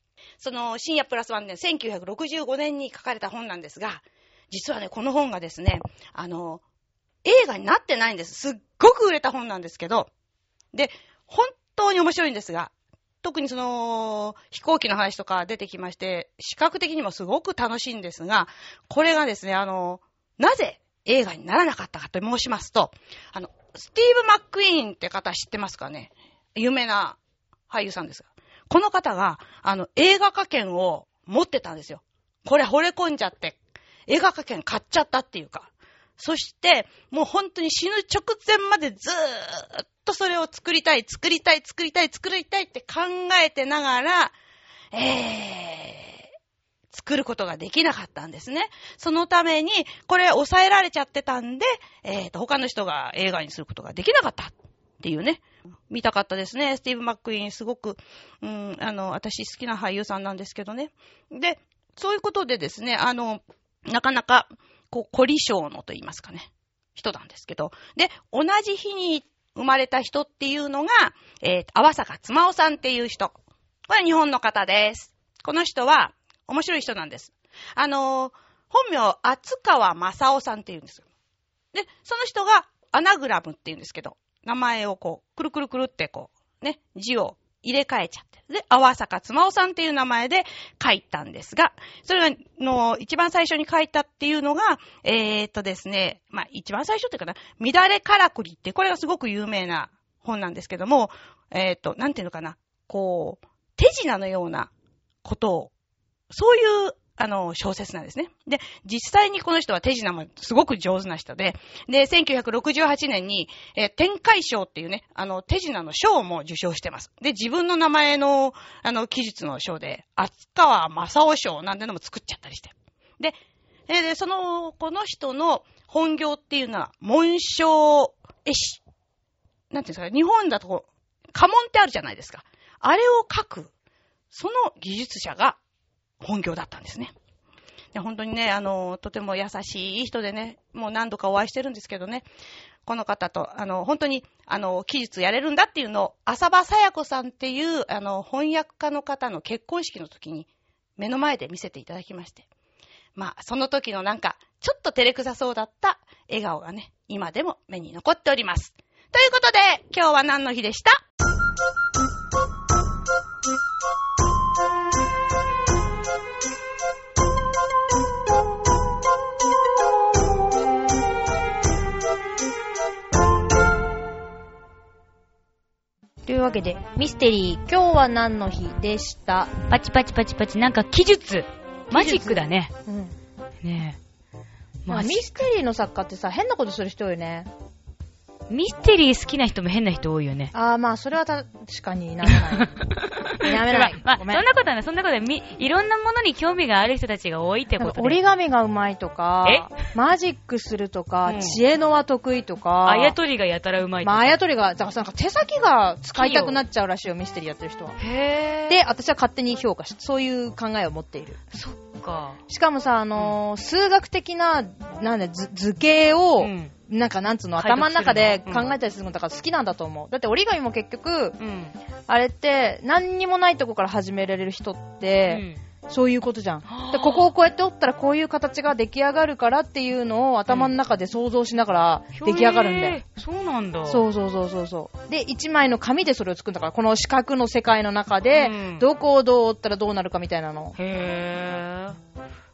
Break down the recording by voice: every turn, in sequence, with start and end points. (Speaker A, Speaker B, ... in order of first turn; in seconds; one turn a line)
Speaker A: 0.4-6.6
Speaker A: 7.2-10.1
Speaker A: 10.7-12.7
Speaker A: 13.2-27.2
Speaker A: 27.7-44.3
Speaker A: 44.9-46.2
Speaker A: 46.9-73.3
Speaker A: 73.9-81.0
Speaker A: 81.7-104.7
Speaker A: 105.2-105.7
Speaker A: 106.3-123.4
Speaker A: 123.9-128.8
Speaker A: 129.7-133.7
Speaker A: 134.3-135.6
Speaker A: 136.2-137.1
Speaker A: 137.9-142.2
Speaker A: 142.8-152.4
Speaker A: 153.2-161.0
Speaker B: 176.2-179.5
Speaker C: 179.7-182.7
Speaker B: 181.9-183.1
Speaker C: 183.6-184.0
Speaker C: 184.8-185.4
Speaker B: 184.9-187.5
Speaker C: 188.5-190.5
Speaker B: 190.5-192.7
Speaker C: 192.2-198.2
Speaker B: 193.4-194.4
Speaker B: 197.8-203.2
Speaker C: 199.4-199.7
Speaker C: 201.2-201.6
Speaker C: 202.8-204.4
Speaker B: 204.0-208.0
Speaker C: 206.1-206.6
Speaker C: 208.0-208.8
Speaker B: 208.7-211.4
Speaker C: 211.5-212.4
Speaker B: 212.5-221.4
Speaker C: 216.4-216.7
Speaker C: 217.6-218.7
Speaker C: 221.4-221.7
Speaker B: 222.1-233.0
Speaker C: 225.3-225.6
Speaker C: 226.7-227.3
Speaker C: 232.1-234.0
Speaker B: 233.9-240.8
Speaker C: 238.3-238.8
Speaker C: 240.8-242.0